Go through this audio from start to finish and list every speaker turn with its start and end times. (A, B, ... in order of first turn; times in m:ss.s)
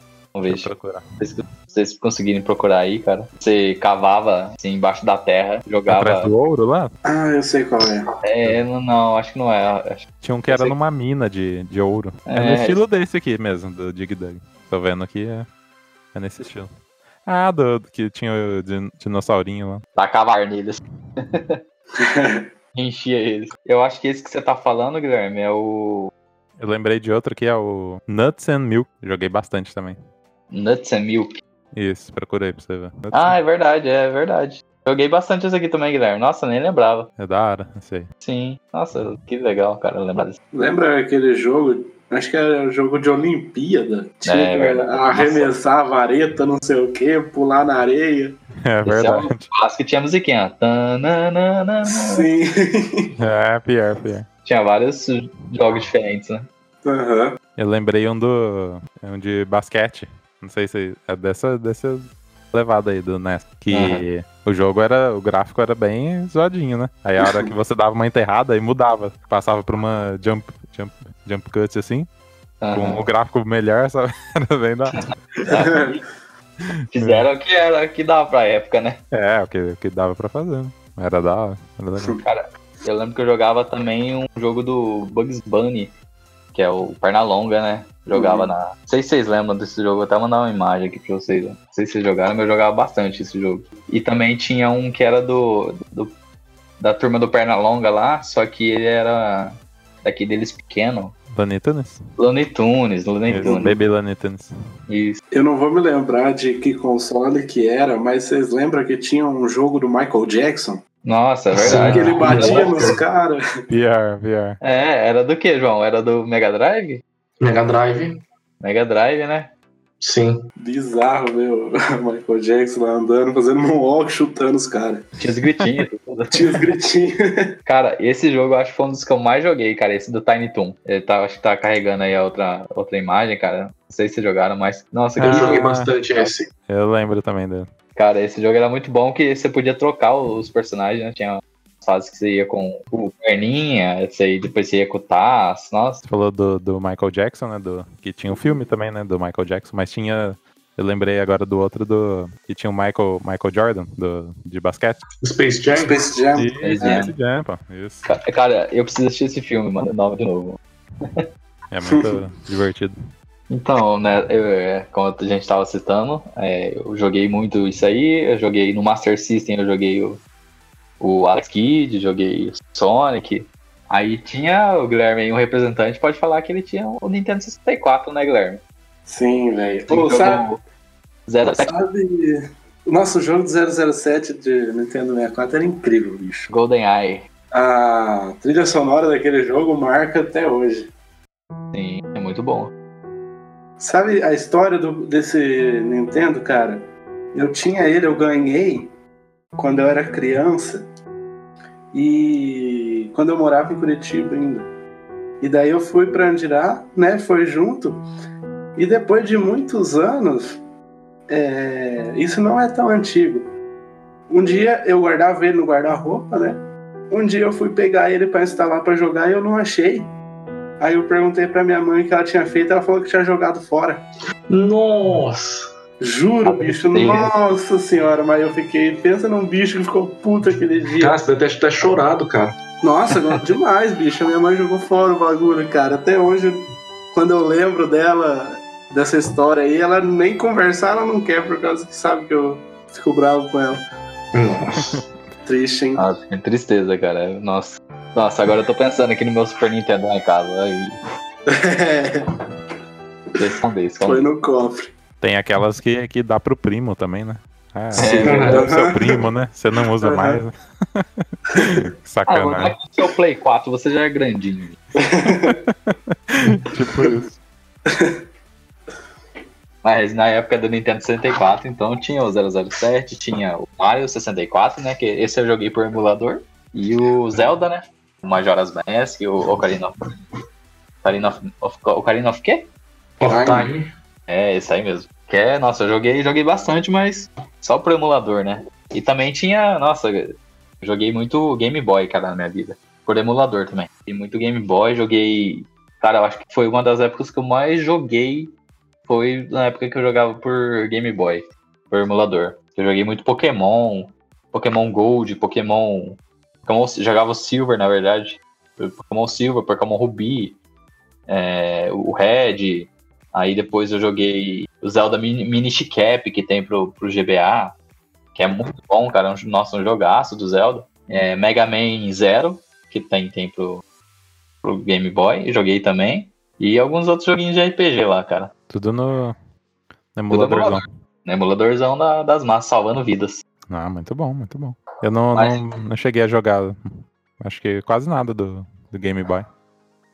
0:00.3-0:06.3 A
0:00.5-0:01.0 B
0:05.9-0:06.9 B
0:07.0-0:08.1 C
0:08.2-0:10.8 A
0:10.2-0:15.5 B
0:12.3-0:12.8 A
0:16.1-0:16.7 B
0:17.3-0:19.8 B
0:20.0-0:21.6 A
0:22.0-0:22.5 C
0:22.8-0:26.1 A
0:26.6-0:30.0 B
0:30.5-0:31.3 A
0:31.7-0:33.4 B
0:33.1-0:37.1 A
0:37.2-0:38.1 B
0:38.2-0:40.4 A
0:40.5-0:48.4 C
0:44.2-0:45.5 A
0:48.6-0:49.4 B
0:48.8-0:52.3 A
0:51.9-0:53.2 C
0:53.2-0:54.3 B
0:54.4-0:56.5 A
0:56.8-0:57.4 C
0:57.6-1:12.1 B
1:03.7-1:04.0 A
1:07.2-1:07.5 C
1:12.6-1:13.1 A
1:12.7-1:15.6 B
1:15.5-1:16.0 C
1:15.5-1:16.0 A
1:16.7-1:17.3 B
1:16.9-1:19.0 A
1:19.1-1:22.2 B
1:22.2-1:25.9 A
1:26.5-1:36.1 A
1:28.1-1:28.5 C
1:36.8-1:41.2 A
1:41.3-1:42.0 B
1:42.2-1:43.8 A
1:43.3-1:44.5 B
1:43.4-1:43.8 C
1:44.9-1:45.2 A
1:45.3-1:50.8 C
1:51.0-1:53.0 A
1:51.6-1:53.0 D
1:51.7-1:53.4 C
1:53.7-1:54.6 B
1:54.6-1:57.0 A
1:57.4-1:58.2 D
1:58.6-1:59.5 A
2:00.0-2:00.5 D
2:00.6-2:05.1 C
2:05.2-2:06.5 A
2:06.3-2:07.5 C
2:07.7-2:15.6 A
2:15.2-2:17.7 B
2:15.2-2:16.5 D
2:18.0-2:26.0 A
2:26.0-2:35.0 B
2:35.2-2:36.0 D
2:35.8-2:37.1 C
2:36.4-2:38.1 B
2:36.6-2:37.1 A
2:38.1-2:40.6 A
2:41.7-2:43.0 B
2:41.9-2:42.2 C
2:43.5-2:50.2 A
2:51.0-2:58.6 A
2:59.1-3:00.5 C
2:59.9-3:00.6 A
3:01.3-3:01.8 A
3:01.4-3:06.5 C
3:06.5-3:07.3 A
3:07.5-3:10.9 C
3:11.7-3:12.7 A
3:13.8-3:18.9 C
3:19.6-3:20.9 C
3:21.9-3:24.7 C
3:25.4-3:28.0 C
3:28.8-3:30.6 C
3:31.3-3:33.5 C
3:34.3-3:40.1 C
3:40.8-3:44.1 C
3:44.5-3:45.7 D
3:46.0-3:51.2 C
3:46.4-3:47.3 A
3:51.0-3:52.6 D
3:52.8-4:03.8 C
4:04.3-4:05.0 D
4:05.4-4:06.0 C
4:06.0-4:11.0 A
4:11.5-4:12.3 C
4:13.4-4:14.2 A
4:14.0-4:14.9 C
4:15.2-4:22.8 B
4:18.0-4:18.6 A
4:18.0-4:19.2 C
4:18.2-4:18.6 D
4:20.0-4:20.4 C
4:22.3-4:24.8 A
4:25.0-4:25.6 C
4:25.3-4:27.4 B
4:27.9-4:28.2 C
4:29.8-4:39.9 A
4:41.0-4:42.7 A
4:43.2-4:43.9 D
4:43.3-4:43.7 C
4:44.3-4:58.5 A
4:59.1-5:10.6 A
5:11.3-5:17.8 A
5:18.4-5:23.8 A
5:24.6-5:28.5 A
5:28.7-5:29.4 B
5:30.2-5:30.9 B
5:30.3-5:33.4 A
5:33.7-5:39.5 B
5:35.4-5:35.6 A